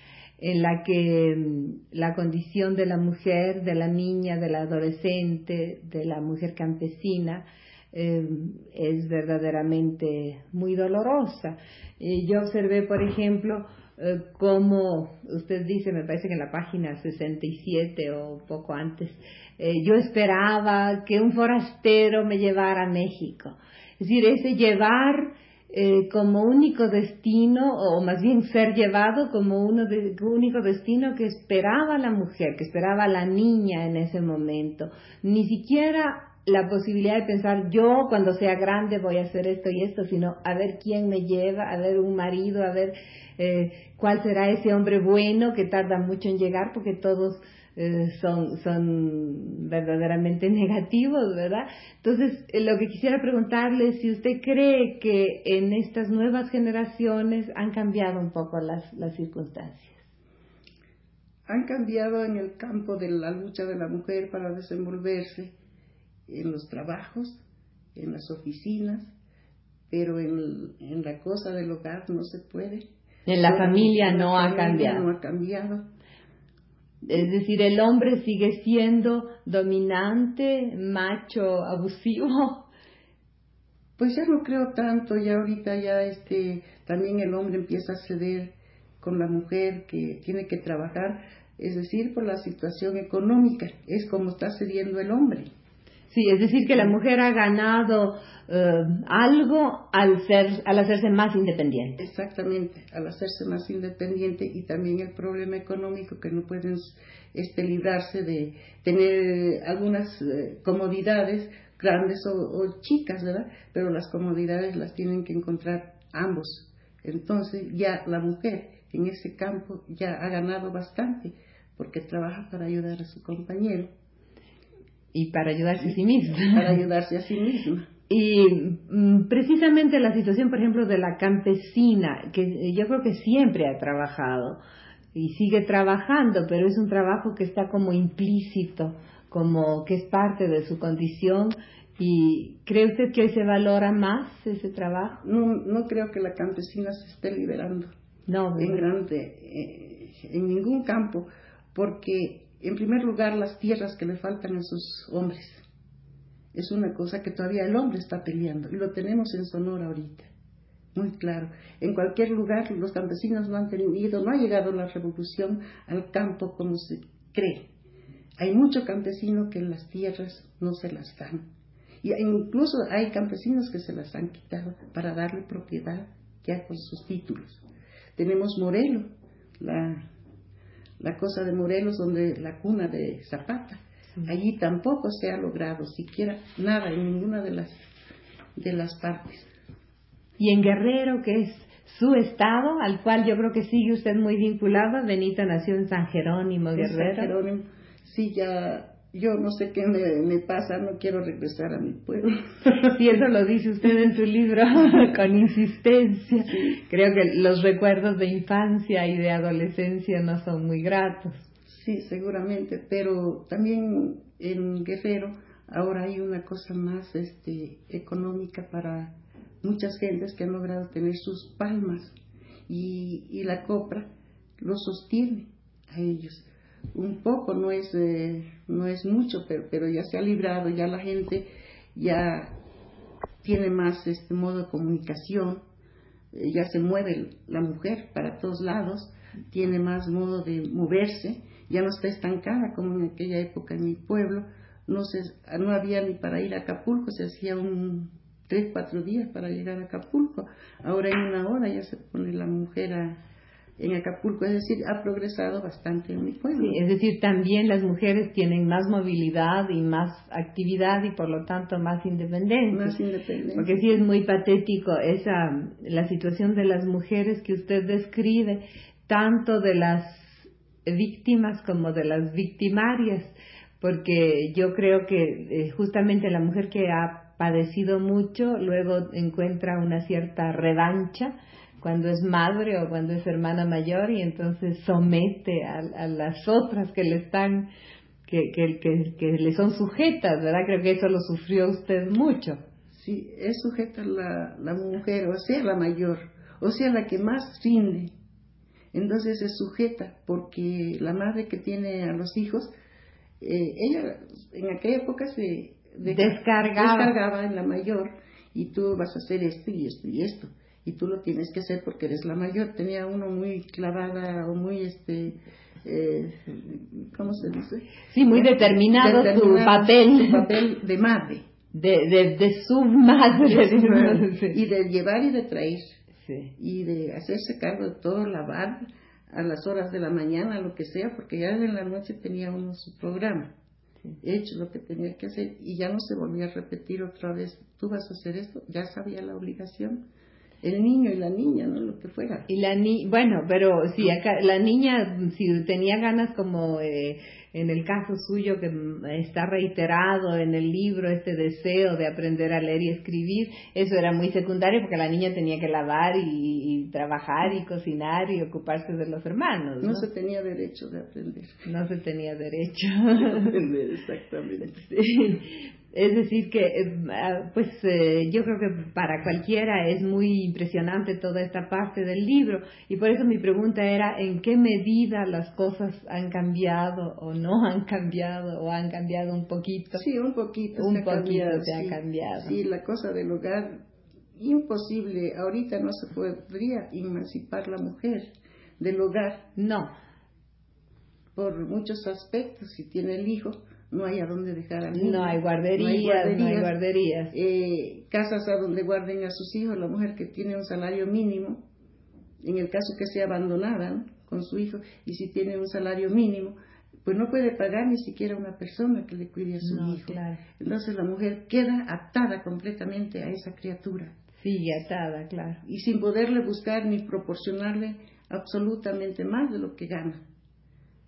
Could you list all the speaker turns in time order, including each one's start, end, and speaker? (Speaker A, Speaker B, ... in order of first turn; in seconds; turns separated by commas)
Speaker A: 0.4-60.0, Speaker B: 61.5-65.5, Speaker B: 66.3-67.4, Speaker B: 68.0-69.1, Speaker B: 69.9-72.9, Speaker A: 73.3-75.1, Speaker B: 73.4-75.9, Speaker A: 77.0-82.7, Speaker B: 84.0-95.5, Speaker A: 96.1-102.0, Speaker B: 96.7-97.0, Speaker B: 102.0-123.9, Speaker A: 125.1-126.8, Speaker B: 125.8-127.9, Speaker A: 128.1-134.6, Speaker A: 135.1-145.2, Speaker B: 145.2-147.9, Speaker A: 148.3-148.8, Speaker B: 148.6-155.6, Speaker B: 156.5-160.3, Speaker B: 160.9-167.7, Speaker B: 168.4-171.5, Speaker B: 172.0-177.6, Speaker B: 178.2-179.1, Speaker B: 179.6-180.1, Speaker B: 181.0-187.9, Speaker B: 188.6-189.5, Speaker A: 190.4-197.3, Speaker B: 196.8-203.0, Speaker A: 202.7-211.5, Speaker B: 206.4-206.8, Speaker B: 211.7-222.2, Speaker B: 222.7-232.6, Speaker B: 233.4-235.6, Speaker B: 236.3-253.2, Speaker B: 253.8-256.8, Speaker A: 256.6-263.0, Speaker B: 262.7-263.8, Speaker A: 263.6-287.7, Speaker A: 288.3-292.6, Speaker B: 292.9-298.1, Speaker B: 298.9-302.7, Speaker B: 303.4-321.4, Speaker A: 306.1-307.2, Speaker A: 318.1-320.5, Speaker A: 321.7-324.6, Speaker B: 323.4-325.9, Speaker A: 326.2-326.5, Speaker B: 326.6-333.5, Speaker B: 334.2-340.0, Speaker B: 340.6-342.5, Speaker A: 342.5-360.1, Speaker B: 359.8-361.6, Speaker A: 361.7-363.6, Speaker B: 363.2-364.9, Speaker A: 364.8-380.0, Speaker B: 379.9-383.8, Speaker A: 380.8-382.6, Speaker B: 384.4-388.3, Speaker B: 388.8-389.5, Speaker A: 389.6-389.9, Speaker B: 391.4-396.7, Speaker A: 394.9-397.3, Speaker B: 397.3-401.6, Speaker B: 402.4-414.1, Speaker A: 409.6-410.4, Speaker A: 414.4-415.6, Speaker B: 415.6-420.2